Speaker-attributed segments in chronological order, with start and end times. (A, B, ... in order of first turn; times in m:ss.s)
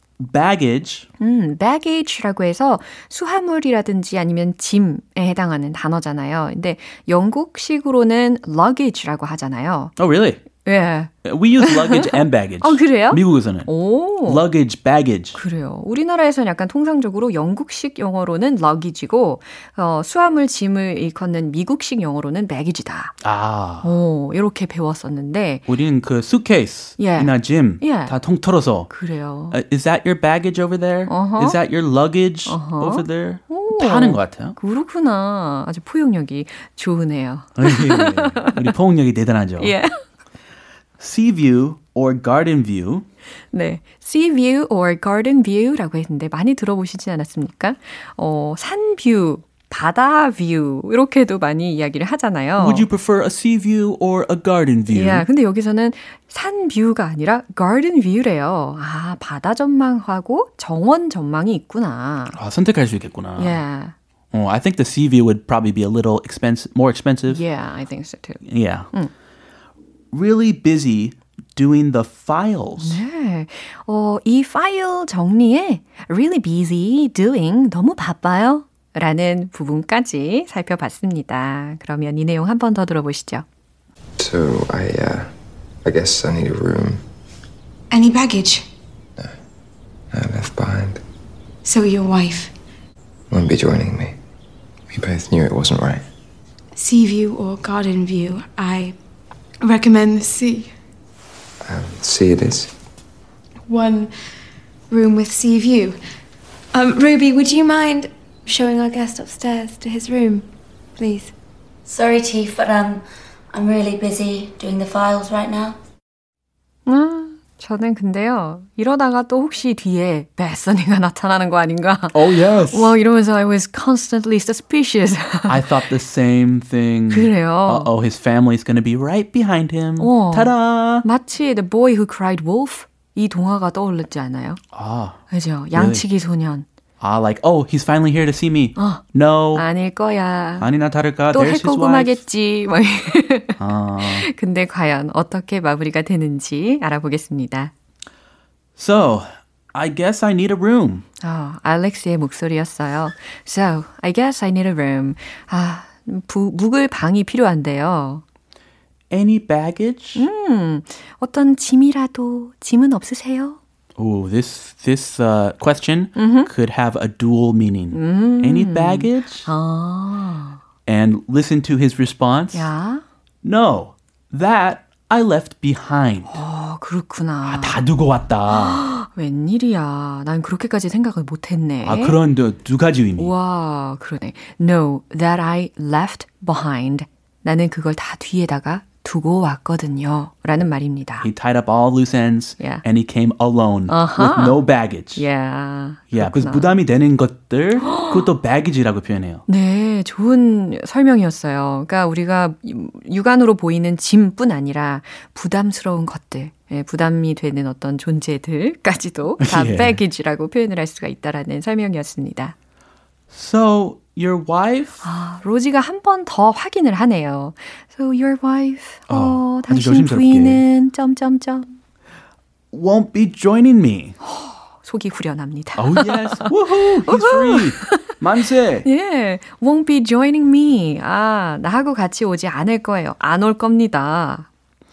0:00.2-0:01.1 A
0:01.2-0:09.9 B
0:10.0-0:10.4 A
0:10.6-0:14.4 B
0:11.2-0:13.7 A
0:14.2-0:15.4 A
0:15.3-0:23.1 B
0:23.2-0:23.9 A
0:23.8-0:25.6 B
0:25.7-0:28.9 A
0:27.0-0:28.1 B
0:28.9-0:29.6 B
0:29.5-0:34.5 A
0:31.1-0:31.6 B
0:32.5-0:38.7 B
0:37.6-0:39.7 A
0:39.6-0:40.0 B
0:41.0-0:43.0 A
0:43.5-0:52.9 B
0:52.6-0:55.2 A
0:54.9-1:02.4 B
1:02.3-1:03.6 A
1:03.4-1:03.9 B
1:04.3-1:07.4 A
1:07.3-1:09.1 B
1:08.4-1:08.9 A
1:10.1-1:13.0 A
1:12.8-1:23.4 B
1:24.2-1:25.3 C
1:25.8-1:27.0 C
1:27.9-1:28.6 D
1:30.1-1:31.0 C
1:31.6-1:32.5 D
1:33.3-1:34.2 C
1:34.9-1:36.0 C
1:36.7-1:39.0 D
1:39.6-1:40.7 D
1:41.6-1:42.7 C
1:43.7-1:44.1 D
1:44.9-1:46.0 D
1:46.7-1:50.4 D
1:51.0-1:51.3 D
1:51.8-1:55.8 E
1:56.9-2:05.7 B
2:02.1-2:02.9 A
2:05.5-2:11.0 A
2:07.1-2:07.9 B
2:10.0-2:14.6 B
2:14.7-2:15.2 A
2:15.3-2:16.6 B
2:15.7-2:16.0 A
2:17.0-2:19.6 A
2:18.8-2:19.0 B
2:19.5-2:20.7 B
2:20.6-2:22.2 A
2:21.3-2:27.7 B
2:23.6-2:24.3 A
2:28.8-2:31.0 A
2:31.2-2:38.2 B
2:39.1-2:40.2 A
2:40.2-2:43.6 B
2:44.0-2:49.5 A
2:46.2-2:46.5 B
2:47.9-2:50.6 B
2:50.8-2:52.7 A
2:52.5-2:53.0 B
2:53.4-2:56.3 A
2:56.3-2:57.8 B
2:57.4-2:58.8 A
2:58.5-3:02.2 B
3:01.8-3:03.3 A
3:03.2-3:11.3 B
3:11.2-3:15.2 A
3:12.6-3:12.8 B
3:13.9-3:14.6 B
3:15.2-3:16.7 B
3:16.1-3:19.4 A
3:17.9-3:18.2 B
3:19.5-3:32.5 B
3:29.4-3:30.0 A
3:33.3-3:35.0 A
3:35.0-3:41.7 B
3:39.1-3:40.6 A
3:42.7-3:44.2 A
3:44.2-3:48.2 B
3:45.8-3:48.8 A
3:48.8-3:54.5 B